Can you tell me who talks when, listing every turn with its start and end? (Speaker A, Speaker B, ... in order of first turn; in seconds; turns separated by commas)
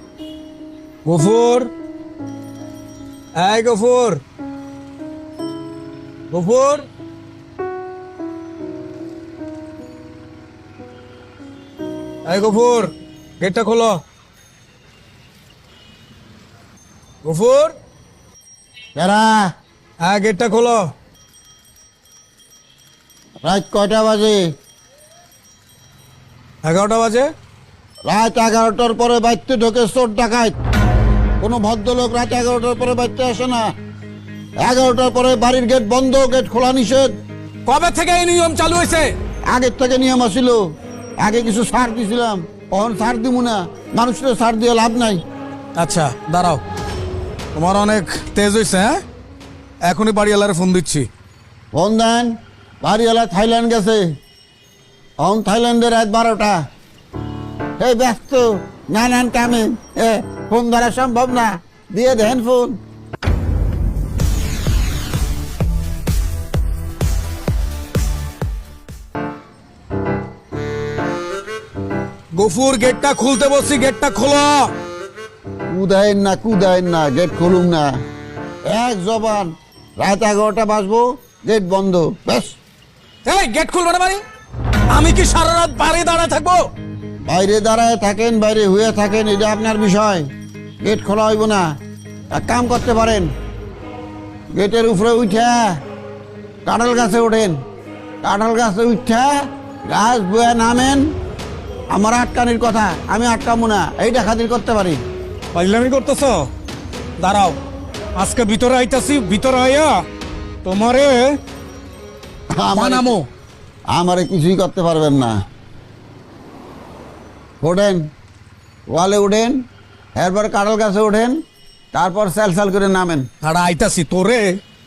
Speaker A: 1.1-1.7, Speaker A: 3.4-4.2, Speaker A: 6.3-6.9, Speaker A: 12.2-14.0, Speaker A: 17.2-17.8, Speaker B: 19.0-19.5, Speaker A: 20.0-20.9, Speaker B: 23.4-24.5, Speaker A: 26.6-27.3, Speaker B: 28.1-30.6, Speaker B: 31.4-33.7, Speaker B: 34.6-37.1, Speaker A: 37.7-39.1, Speaker B: 39.5-40.6, Speaker B: 41.2-45.2, Speaker A: 45.8-46.6, Speaker A: 47.5-49.0, Speaker A: 49.9-51.1, Speaker B: 51.8-54.1, Speaker B: 55.2-56.6, Speaker B: 57.8-62.8, Speaker A: 72.3-74.7, Speaker B: 75.7-77.9, Speaker B: 78.7-82.6, Speaker A: 83.2-84.2, Speaker A: 84.9-86.7, Speaker B: 87.3-90.3, Speaker B: 90.8-91.7, Speaker B: 92.3-93.3, Speaker B: 94.5-95.8, Speaker B: 96.7-97.6, Speaker B: 98.2-101.1, Speaker B: 101.9-105.0, Speaker A: 105.5-106.5, Speaker A: 107.2-107.6, Speaker A: 108.2-110.0, Speaker A: 110.6-111.4, Speaker B: 112.5-113.2, Speaker A: 112.7-113.2, Speaker B: 113.9-115.3, Speaker B: 117.6-118.1, Speaker B: 118.9-119.6, Speaker B: 120.2-121.4, Speaker B: 121.9-123.3, Speaker A: 123.4-124.6